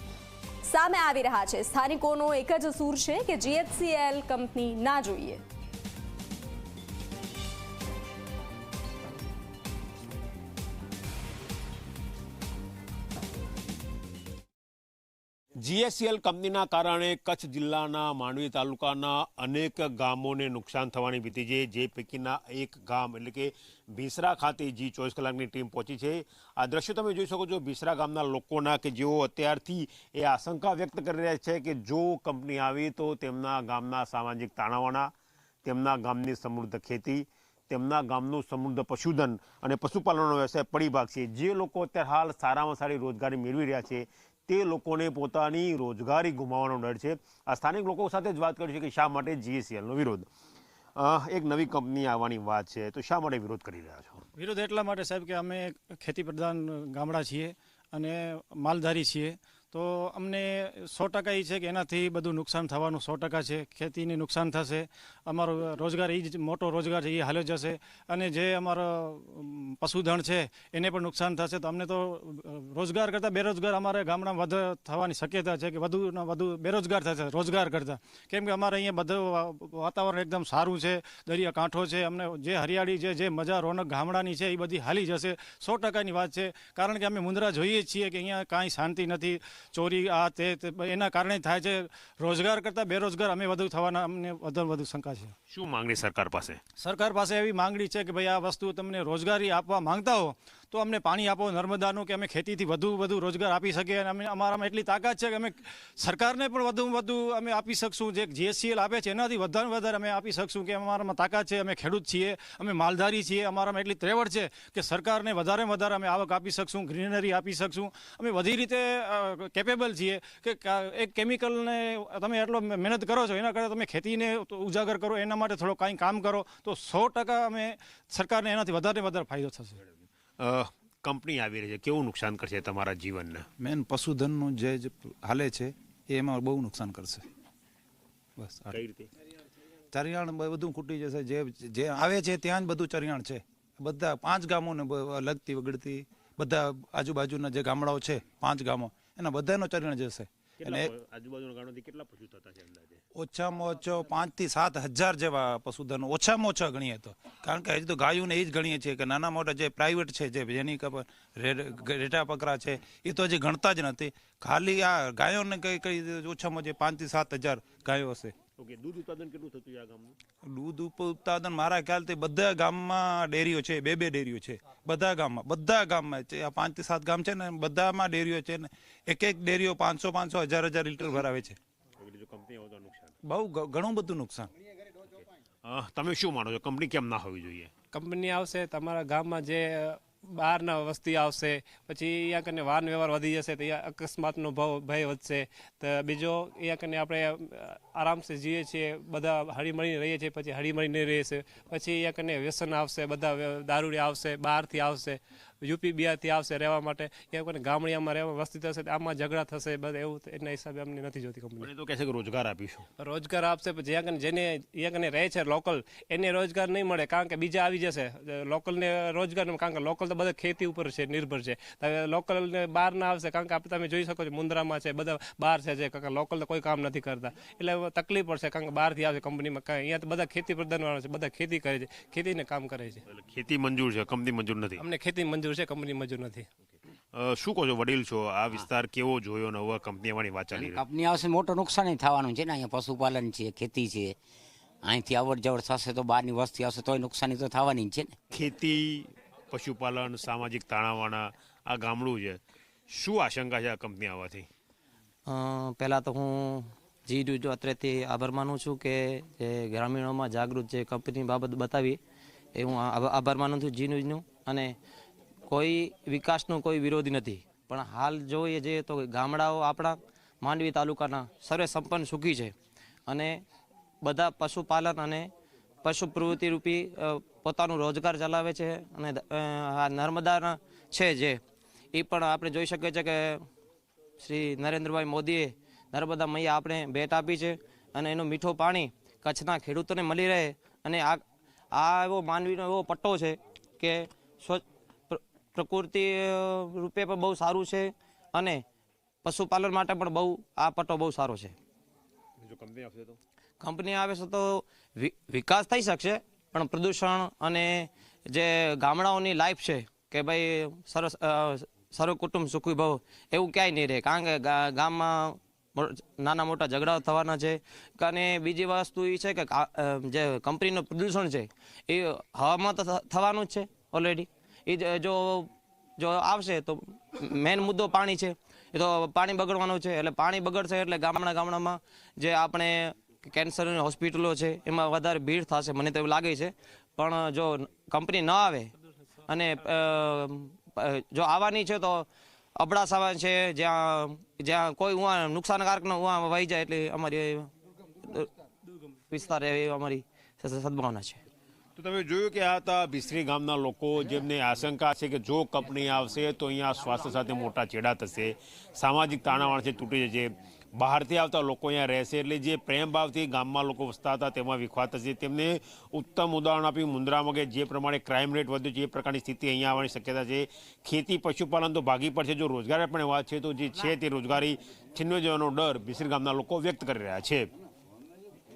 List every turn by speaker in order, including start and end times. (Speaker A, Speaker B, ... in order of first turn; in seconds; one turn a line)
Speaker A: 0.7-5.4
Speaker B: 15.6-35.1
Speaker B: 35.6-50.3
Speaker B: 51.0-54.2
Speaker C: 54.4-95.3
Speaker B: 95.5-96.6
Speaker C: 96.8-129.8
Speaker B: 130.4-133.5
Speaker D: 133.6-137.2
Speaker D: 138.4-138.8
Speaker B: 138.7-139.1
Speaker D: 139.9-150.9
Speaker B: 150.6-153.0
Speaker D: 153.1-168.3
Speaker B: 168.6-170.1
Speaker D: 170.4-181.6
Speaker B: 182.0-183.1
Speaker D: 183.2-184.5
Speaker B: 185.2-187.7
Speaker E: 187.9-211.7
Speaker B: 211.6-212.9
Speaker E: 213.0-233.0
Speaker B: 233.1-234.8
Speaker E: 234.8-236.5
Speaker B: 237.1-240.8
Speaker F: 240.5-244.2
Speaker F: 244.8-248.1
Speaker B: 248.3-252.4
Speaker B: 252.9-254.5
Speaker G: 255.3-262.0
Speaker G: 262.5-264.7
Speaker G: 265.5-272.5
Speaker G: 273.1-273.4
Speaker G: 274.0-275.3
Speaker G: 275.8-281.4
Speaker G: 281.9-283.4
Speaker G: 284.2-298.6
Speaker G: 299.2-301.5
Speaker B: 302.4-303.2
Speaker G: 303.6-338.7
Speaker G: 339.3-342.1
Speaker G: 342.6-347.5
Speaker G: 349.1-351.2
Speaker B: 351.8-377.5